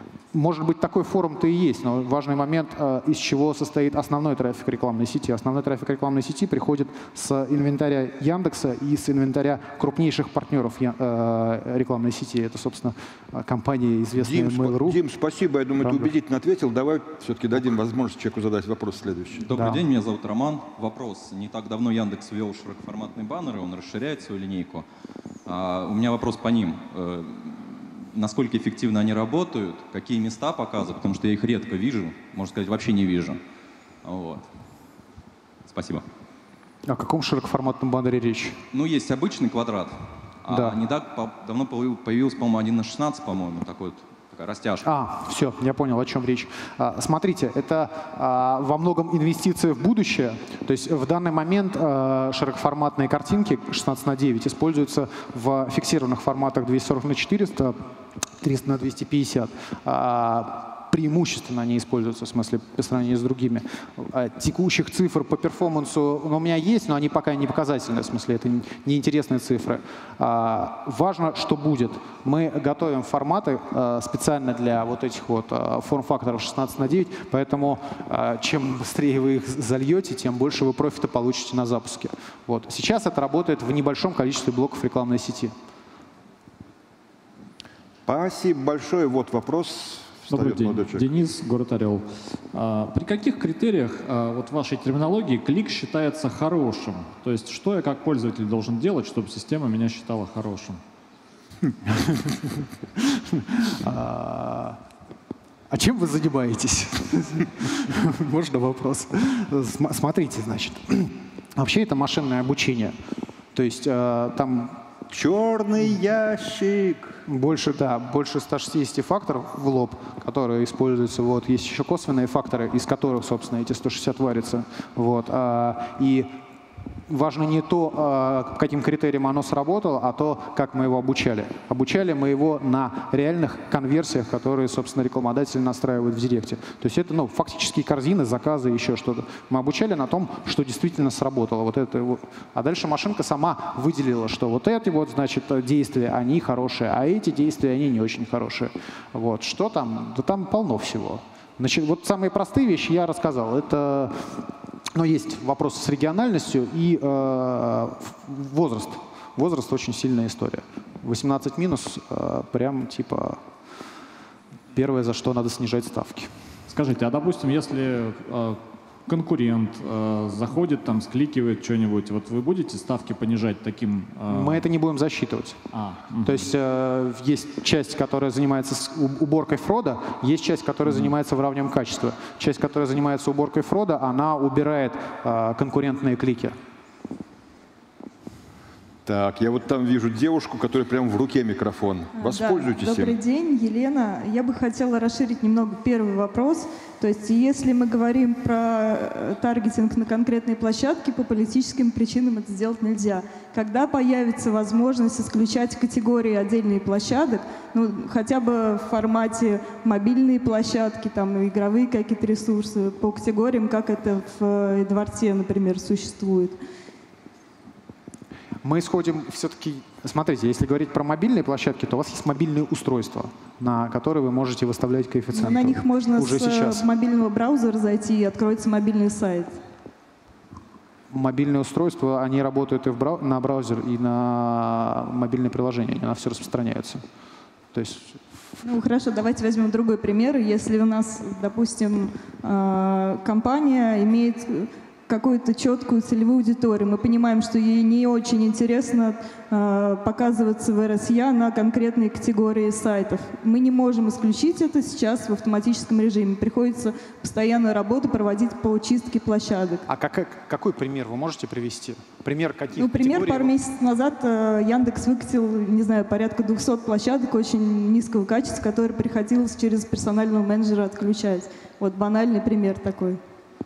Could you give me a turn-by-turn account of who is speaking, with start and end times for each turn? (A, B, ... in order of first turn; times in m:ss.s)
0:00.3-0:15.0 A
0:14.2-0:19.5 B
0:15.8-0:16.1 A
0:19.4-0:24.9 C
0:19.5-0:19.8 A
0:25.5-0:33.4 C
0:34.0-0:34.5 C
0:35.7-0:36.1 C
0:36.9-0:38.6 A
0:38.7-0:44.8 C
0:40.5-0:40.8 A
0:44.8-0:57.8 A
0:58.4-1:25.5 A
1:28.1-1:31.1 B
1:30.3-1:40.8 D
1:41.9-1:42.2 A
1:43.0-1:44.8 A
1:45.7-1:53.0 A
1:53.5-1:54.8 A
1:55.1-1:57.2 B
1:57.3-2:06.3 A
2:07.1-2:34.2 A
2:35.0-2:43.4 A
2:44.7-2:46.3 A
2:46.7-2:54.7 D
2:54.3-2:55.6 A
2:55.7-2:56.5 D
2:56.2-3:06.6 A
3:09.0-3:13.2 B
3:12.2-3:36.6 E
3:38.6-3:46.9 A
3:45.3-3:49.6 E
3:51.1-3:57.0 A
3:57.7-3:58.2 A
3:58.6-4:19.9 E
4:19.9-4:23.5 A
4:22.8-4:33.2 E